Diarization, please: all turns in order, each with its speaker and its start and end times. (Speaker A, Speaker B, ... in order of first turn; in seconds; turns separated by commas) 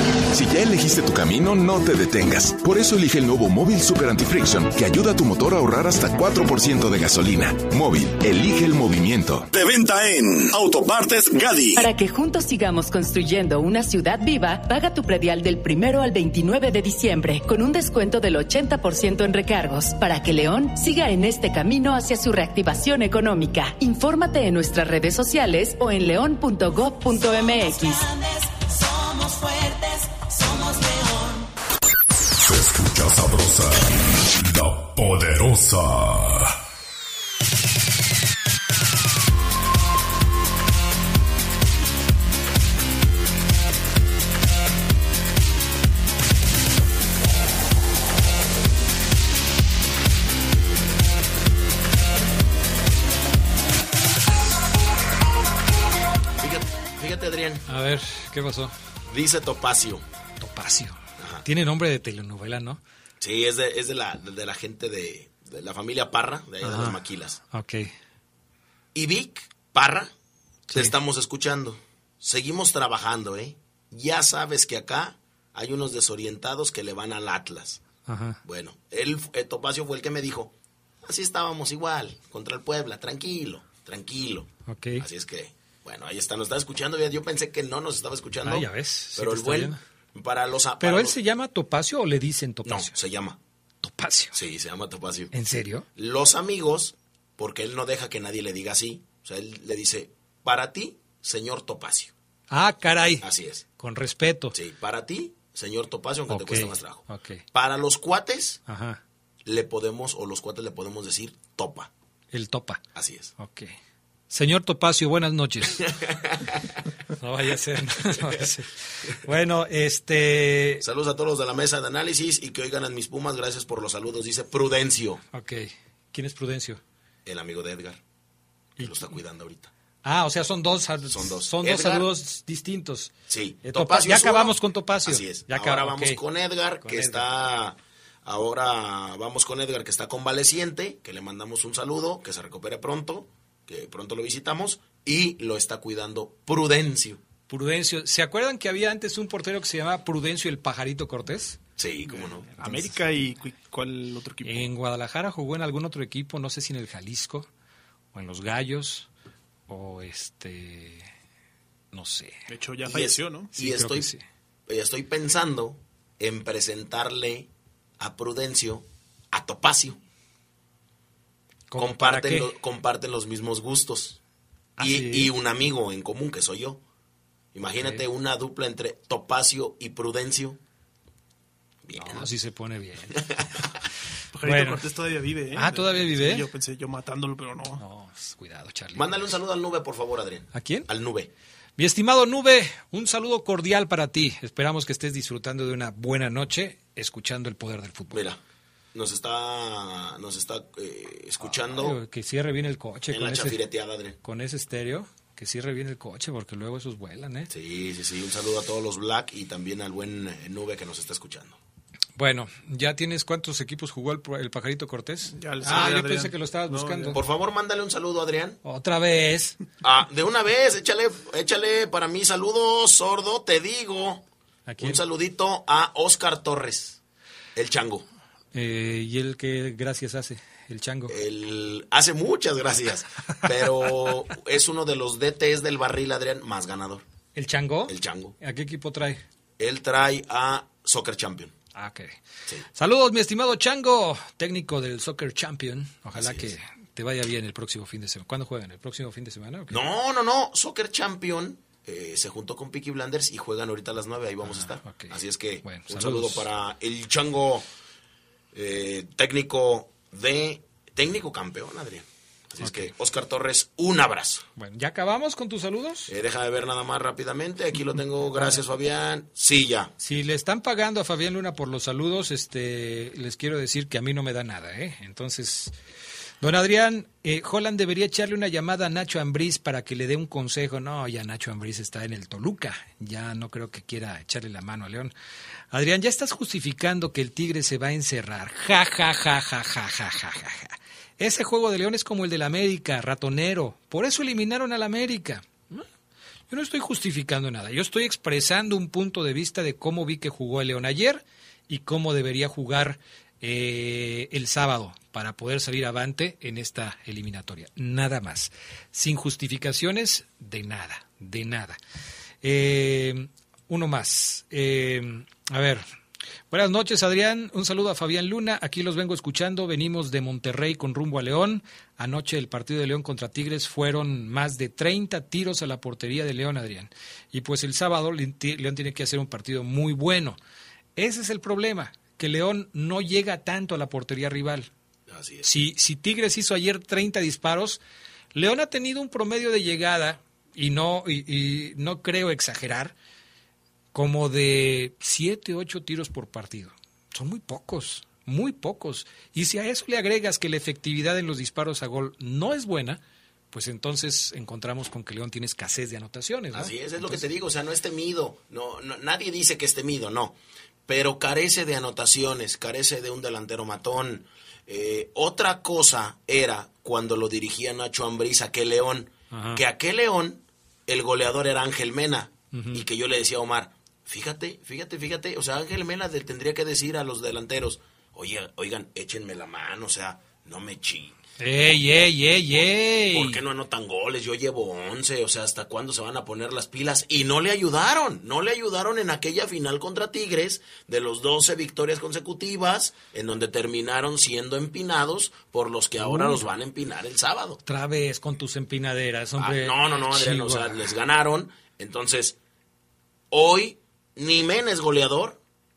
Speaker A: 0.3-9.5, Speaker B: 9.5-11.8, Speaker C: 11.8-28.2, Speaker C: 30.5-31.2, Speaker D: 32.4-36.6, Speaker E: 56.4-57.6, Speaker F: 57.7-58.8, Speaker E: 59.1-60.0, Speaker F: 60.4-62.8, Speaker E: 61.2-61.4, Speaker E: 63.2-67.4, Speaker F: 66.6-67.0, Speaker F: 67.5-67.9, Speaker E: 68.9-70.1, Speaker E: 70.7-77.8, Speaker F: 78.1-78.4, Speaker E: 78.4-80.5, Speaker E: 81.0-91.2, Speaker F: 84.7-85.0, Speaker F: 88.5-89.8, Speaker F: 90.8-92.9, Speaker E: 92.7-93.4, Speaker F: 93.8-94.4, Speaker E: 94.3-95.3, Speaker F: 95.3-95.9, Speaker E: 96.0-102.1, Speaker F: 102.5-103.3, Speaker E: 103.2-103.6, Speaker F: 103.8-104.5, Speaker E: 104.5-107.0, Speaker F: 106.3-107.4, Speaker E: 107.5-108.6, Speaker F: 108.7-109.0, Speaker E: 109.5-111.9, Speaker F: 112.3-112.8, Speaker E: 113.0-113.3, Speaker F: 113.4-113.7, Speaker F: 114.3-115.9, Speaker E: 115.9-116.6, Speaker F: 117.2-120.8, Speaker E: 120.8-125.2, Speaker F: 125.3-126.8, Speaker E: 127.2-128.0, Speaker F: 128.8-129.1, Speaker E: 128.8-129.7, Speaker F: 130.1-133.1, Speaker E: 131.1-132.1, Speaker E: 133.3-147.2, Speaker F: 133.6-136.2, Speaker F: 136.8-137.2, Speaker F: 147.5-151.6, Speaker E: 151.8-152.6, Speaker F: 152.5-152.9, Speaker G: 152.6-154.7, Speaker F: 154.4-157.5, Speaker F: 158.1-159.1, Speaker F: 159.7-161.1, Speaker F: 161.9-162.4, Speaker G: 162.5-163.5, Speaker E: 162.9-164.1, Speaker F: 163.6-164.2, Speaker E: 164.7-170.0, Speaker F: 171.7-172.5, Speaker E: 171.8-174.2, Speaker F: 174.8-175.3, Speaker E: 174.8-176.8, Speaker E: 177.5-180.6, Speaker E: 181.9-182.3, Speaker F: 181.9-183.3, Speaker E: 183.2-183.6, Speaker G: 184.3-187.8, Speaker F: 184.4-184.8, Speaker F: 185.6-186.5, Speaker F: 187.8-189.3, Speaker E: 188.9-191.3, Speaker F: 190.5-190.9, Speaker F: 191.8-198.3, Speaker E: 198.1-198.4, Speaker E: 198.9-202.0, Speaker F: 201.7-203.6, Speaker E: 203.1-204.2, Speaker F: 204.2-207.5, Speaker E: 207.5-211.6, Speaker F: 212.2-217.2, Speaker G: 215.3-217.2, Speaker E: 217.1-218.6, Speaker F: 218.6-219.6, Speaker E: 219.8-224.2, Speaker F: 224.7-225.0, Speaker E: 224.8-227.0, Speaker E: 227.6-228.1, Speaker F: 228.5-231.1, Speaker E: 231.1-237.0, Speaker F: 237.3-239.2, Speaker E: 237.9-238.3, Speaker E: 239.6-241.5, Speaker F: 241.8-242.2, Speaker F: 242.7-249.8, Speaker E: 246.2-246.5, Speaker E: 249.7-257.7, Speaker F: 254.4-256.5, Speaker E: 258.5-264.5, Speaker F: 262.6-262.9, Speaker F: 264.6-266.1, Speaker E: 266.1-269.9, Speaker F: 270.0-275.7, Speaker F: 276.4-285.1, Speaker F: 285.7-295.9, Speaker F: 296.5-311.8, Speaker F: 312.4-315.8, Speaker F: 316.5-330.4, Speaker F: 331.0-334.7, Speaker E: 335.1-335.5, Speaker F: 335.4-337.8, Speaker F: 338.4-342.9, Speaker F: 343.9-353.0, Speaker F: 353.5-357.2, Speaker E: 356.5-381.2, Speaker F: 369.3-369.6, Speaker F: 372.5-372.8, Speaker F: 381.4-383.4, Speaker E: 383.1-397.6, Speaker F: 396.0-396.5, Speaker F: 397.6-400.9, Speaker E: 399.4-402.4, Speaker E: 403.3-405.4